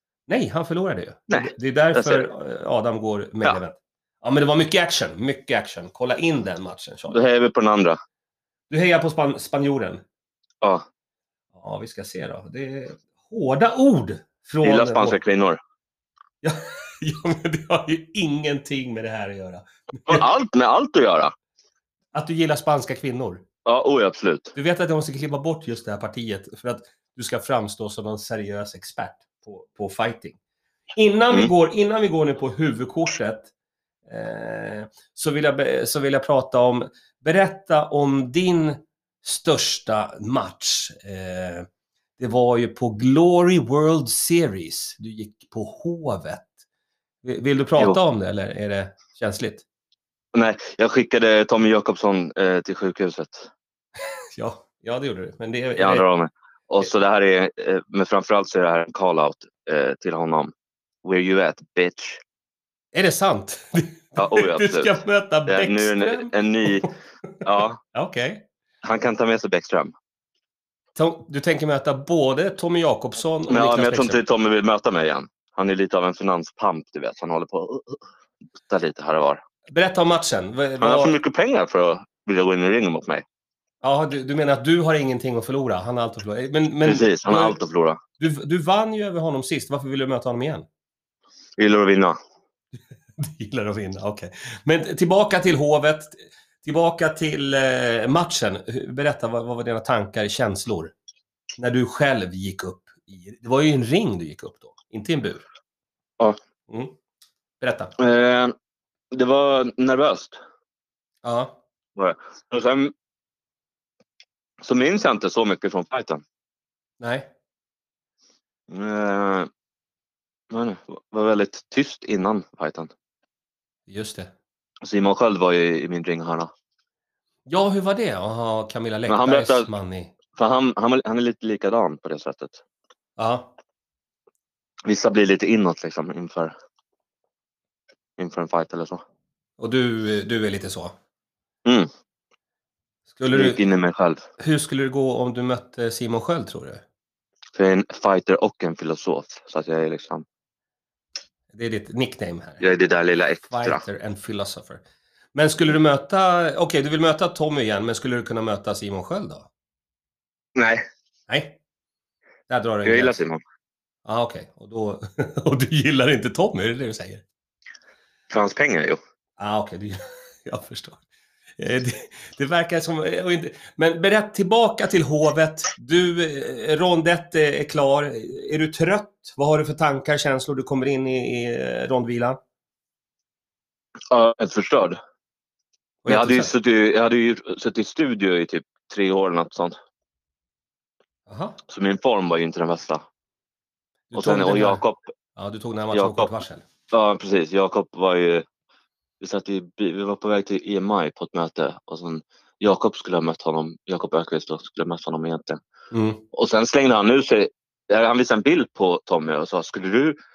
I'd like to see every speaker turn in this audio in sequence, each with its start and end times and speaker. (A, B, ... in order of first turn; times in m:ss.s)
0:00.3-0:07.2 A
0:01.3-0:02.3 B
0:07.1-0:08.0 B
0:08.7-0:10.0 A
0:11.6-0:15.2 A
0:14.6-0:15.6 B
0:16.4-0:20.2 A
0:20.1-0:21.3 B
0:22.1-0:23.4 A
0:23.7-0:24.6 B
0:24.6-0:30.4 A
0:31.0-0:33.5 A
0:34.1-0:46.5 A
0:47.2-0:49.6 A
0:50.3-0:53.5 B
0:54.4-0:56.0 A
0:55.8-1:00.5 B
1:01.0-1:02.2 B
1:02.9-1:06.3 A
1:04.2-1:06.9 B
1:07.4-1:07.8 B
1:07.9-1:08.4 A
1:08.8-1:09.9 B
1:11.0-1:14.2 A
1:13.5-1:18.0 B
1:18.7-1:19.4 B
1:19.7-1:21.2 A
1:20.8-1:23.2 B
1:23.8-1:27.6 A
1:26.8-1:28.0 B
1:28.2-1:30.7 A
1:31.6-1:32.2 B
1:33.2-1:40.9 A
1:41.6-1:45.4 A
1:46.7-1:46.9 A
1:47.6-1:47.9 A
1:48.0-1:48.5 B
1:49.1-1:50.4 B
1:51.2-1:51.6 A
1:52.0-1:52.9 B
1:54.6-1:56.2 B
1:57.0-1:57.3 A
1:58.7-1:59.5 B
2:00.5-2:02.9 B
2:03.9-2:04.3 A
2:04.8-2:06.5 B
2:07.5-2:10.2 A
2:09.1-2:09.7 B
2:10.4-2:12.6 B
2:13.2-2:13.5 A
2:14.9-2:16.5 B
2:18.2-2:19.0 B
2:19.6-2:21.0 A
2:23.1-2:23.6 A
2:23.3-2:24.2 B
2:24.4-2:26.8 A
2:27.6-2:30.2 B
2:31.5-2:32.7 A
2:32.6-2:33.8 B
2:33.4-2:34.8 A
2:35.3-2:39.5 A
2:40.6-2:40.8 B
2:41.3-2:41.6 A
2:42.5-2:43.2 A
2:42.8-2:43.4 B
2:44.1-2:47.2 A
2:48.3-2:49.0 B
2:49.4-2:51.0 A
2:51.6-3:02.4 A
3:04.1-3:05.0 B
3:06.0-3:06.5 A
3:06.1-3:09.8 B
3:11.3-3:11.6 A
3:11.7-3:13.0 B
3:14.1-3:14.8 A
3:14.2-3:15.1 B
3:15.4-3:16.6 A
3:15.9-3:16.3 B
3:16.9-3:18.4 B
3:19.2-3:25.6 B
3:25.9-3:26.2 A
3:26.3-3:30.2 B